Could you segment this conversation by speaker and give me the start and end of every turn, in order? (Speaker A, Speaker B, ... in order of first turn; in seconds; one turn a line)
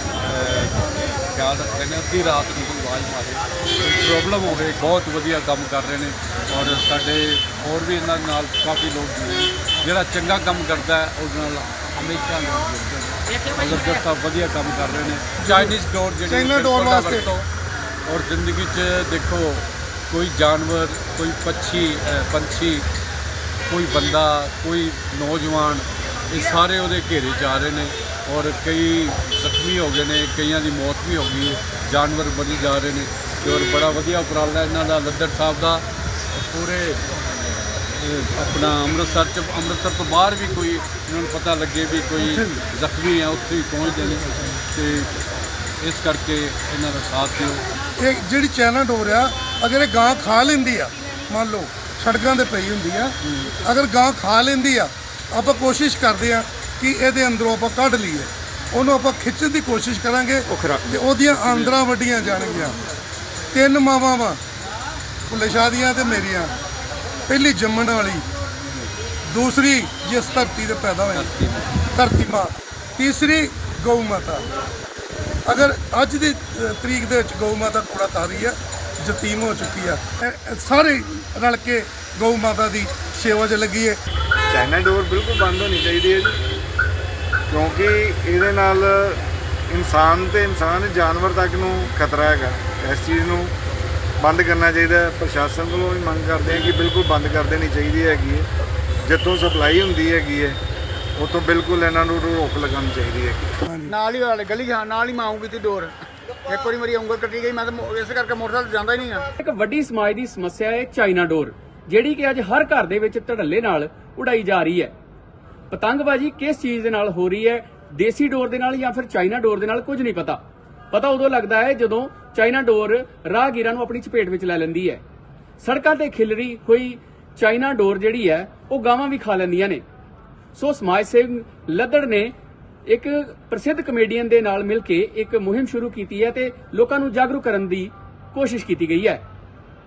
Speaker A: 0.2-17.5
Speaker B: 15.4-15.8
Speaker B: 16.3-17.3
Speaker A: 18.1-22.9
Speaker A: 23.7-37.0
Speaker A: 38.0-45.2
Speaker A: 45.8-47.6
Speaker B: 48.0-62.8
Speaker A: 61.4-61.7
Speaker B: 63.5-64.4
Speaker B: 65.3-66.5
Speaker B: 67.3-68.3
Speaker B: 69.3-71.3
Speaker A: 71.1-71.8
Speaker B: 71.9-74.5
Speaker B: 75.5-84.0
Speaker C: 84.5-86.4
Speaker C: 87.5-93.5
Speaker C: 94.2-98.5
Speaker C: 99.0-100.6
Speaker C: 101.2-103.5
Speaker B: 103.7-104.0
Speaker D: 104.0-105.9
Speaker D: 106.5-109.2
Speaker E: 109.4-114.9
Speaker E: 115.7-120.4
Speaker E: 120.9-125.0
Speaker E: 125.6-129.8
Speaker E: 130.6-132.3
Speaker E: 132.9-139.2